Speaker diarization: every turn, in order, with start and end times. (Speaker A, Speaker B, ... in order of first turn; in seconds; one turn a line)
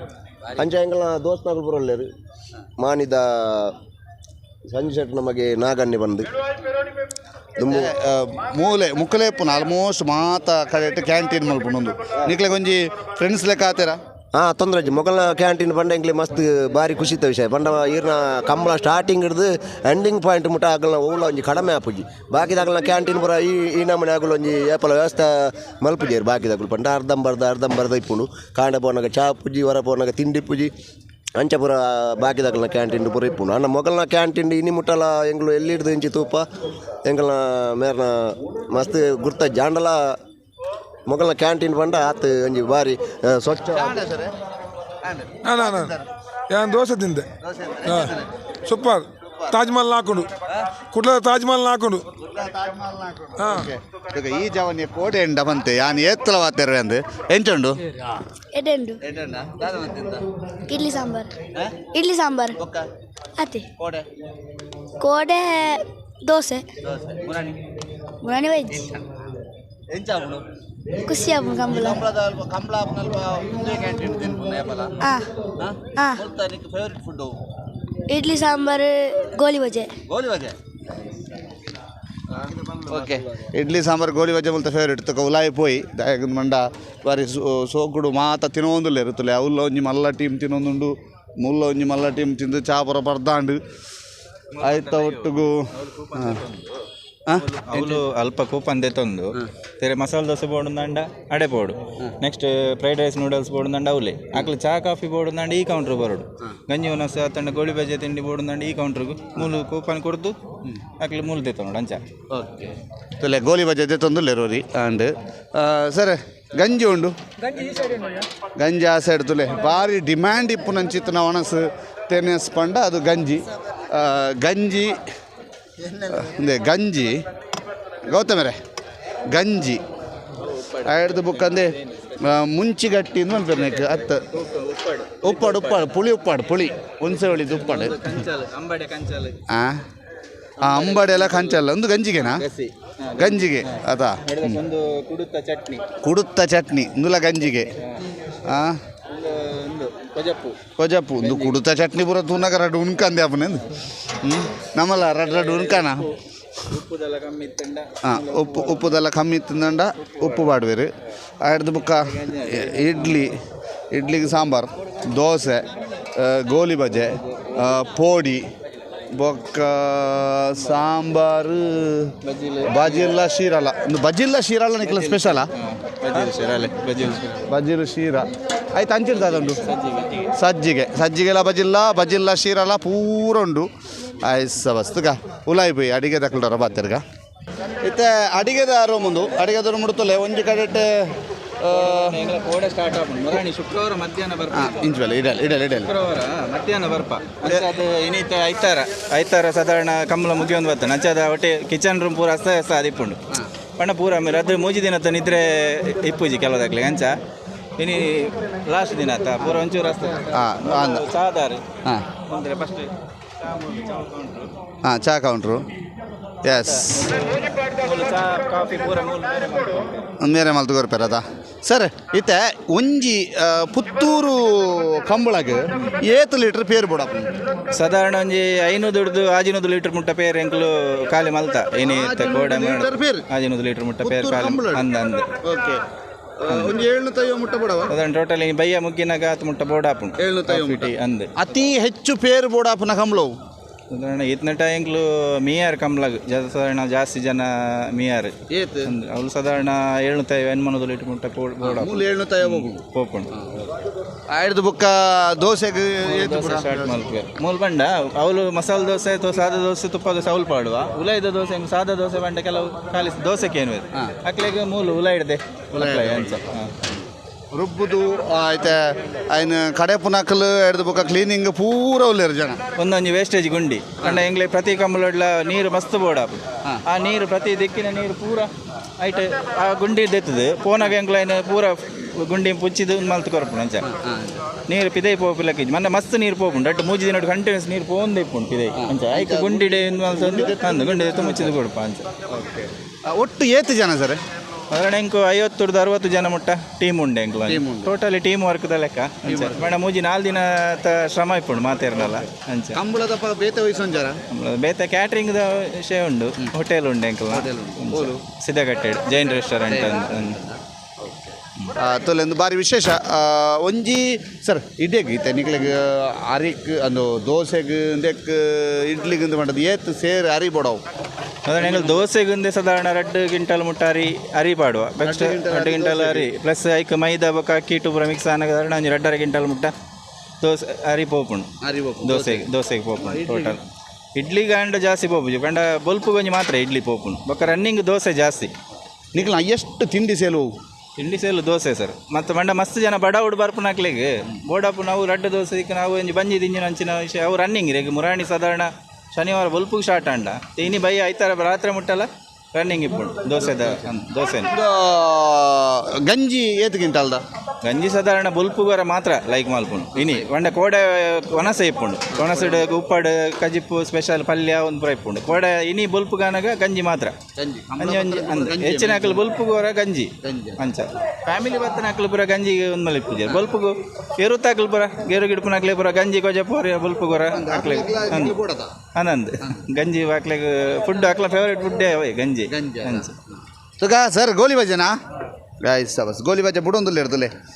Speaker A: 0.6-2.1
Speaker A: 2.8-3.8
Speaker A: 4.7-6.3
Speaker A: 7.6-7.9
Speaker B: 7.7-14.0
Speaker A: 14.4-30.7
Speaker A: 31.4-36.5
Speaker A: 37.0-40.2
Speaker A: 41.1-44.0
Speaker B: 43.7-44.3
Speaker B: 45.0-46.1
Speaker C: 45.5-45.9
Speaker C: 46.5-47.2
Speaker B: 47.4-48.3
Speaker C: 48.7-50.3
Speaker B: 49.2-49.6
Speaker C: 50.9-52.0
Speaker B: 52.2-58.1
Speaker D: 58.5-59.0
Speaker B: 59.0-60.3
Speaker D: 60.7-61.3
Speaker B: 61.5-61.9
Speaker D: 62.0-62.5
Speaker B: 62.6-62.9
Speaker B: 63.8-64.0
Speaker D: 65.0-66.7
Speaker B: 66.9-67.6
Speaker D: 68.2-68.7
Speaker B: 69.9-70.4
Speaker D: 71.1-72.0
Speaker B: 71.7-75.0
Speaker B: 75.6-77.3
Speaker D: 78.1-79.9
Speaker B: 80.1-80.5
Speaker B: 82.3-93.6
Speaker E: 94.5-96.8
Speaker B: 94.6-96.4
Speaker B: 97.3-98.0
Speaker E: 97.3-110.4
Speaker E: 111.0-112.0
Speaker B: 113.2-117.1
Speaker B: 118.6-125.0
Speaker B: 125.9-127.2
Speaker B: 128.1-128.6
Speaker B: 129.3-129.8
Speaker E: 130.4-132.2
Speaker B: 130.8-134.2
Speaker E: 133.4-135.9
Speaker B: 135.2-138.0
Speaker E: 137.4-139.4
Speaker B: 139.5-139.8
Speaker E: 140.6-141.6
Speaker B: 140.6-142.4
Speaker E: 142.2-145.9
Speaker B: 143.2-144.6
Speaker B: 146.0-147.7
Speaker E: 147.8-148.1
Speaker B: 148.4-148.8
Speaker E: 149.1-150.6
Speaker B: 150.8-156.1
Speaker E: 151.2-151.6
Speaker E: 155.1-159.0
Speaker B: 158.0-160.9
Speaker E: 160.0-160.5
Speaker B: 161.4-163.3
Speaker E: 162.0-163.3
Speaker B: 163.9-168.5
Speaker E: 167.2-167.7
Speaker B: 169.1-175.5
Speaker E: 172.2-173.2
Speaker E: 174.8-177.4
Speaker B: 177.1-179.6
Speaker E: 179.1-180.3
Speaker B: 180.4-183.7
Speaker B: 184.2-187.0
Speaker B: 187.8-190.9
Speaker B: 191.6-192.2
Speaker E: 191.7-194.8
Speaker B: 194.5-195.9
Speaker E: 195.8-203.2
Speaker B: 197.4-197.7
Speaker E: 203.8-207.2
Speaker E: 207.8-211.6
Speaker B: 210.3-211.1
Speaker E: 212.3-214.5
Speaker B: 214.8-215.7
Speaker B: 216.4-217.2
Speaker E: 216.6-220.1
Speaker B: 220.2-227.4
Speaker E: 227.7-235.3
Speaker B: 231.8-233.2
Speaker B: 234.0-234.8
Speaker B: 235.4-235.8
Speaker B: 236.4-237.9
Speaker E: 236.5-236.8
Speaker E: 237.9-241.3
Speaker B: 240.2-243.3
Speaker E: 243.9-248.3
Speaker B: 248.5-248.9
Speaker E: 248.9-253.3
Speaker B: 251.6-252.8
Speaker B: 253.4-257.1
Speaker E: 256.1-266.7
Speaker B: 265.7-266.4
Speaker B: 267.5-272.6
Speaker E: 272.8-283.9
Speaker B: 283.8-284.4
Speaker E: 284.7-292.1
Speaker B: 288.8-291.5
Speaker B: 292.3-294.2
Speaker E: 294.7-302.8
Speaker B: 297.4-297.9
Speaker B: 299.2-299.7
Speaker B: 302.7-304.2
Speaker E: 304.3-310.4
Speaker B: 307.3-308.2
Speaker B: 311.8-320.8
Speaker E: 321.5-329.7
Speaker B: 321.6-322.0
Speaker B: 325.0-326.3
Speaker E: 330.4-331.5
Speaker B: 331.6-333.6
Speaker E: 332.0-333.6
Speaker E: 334.2-338.5
Speaker B: 339.1-340.5
Speaker E: 341.0-354.6
Speaker B: 353.6-357.2
Speaker E: 357.6-367.2
Speaker B: 359.9-360.2
Speaker B: 362.1-362.7
Speaker B: 367.4-369.2
Speaker E: 367.8-378.4
Speaker B: 370.2-370.6
Speaker B: 377.3-378.7
Speaker E: 378.9-383.1
Speaker B: 382.5-383.2
Speaker B: 383.8-384.9
Speaker B: 385.6-387.3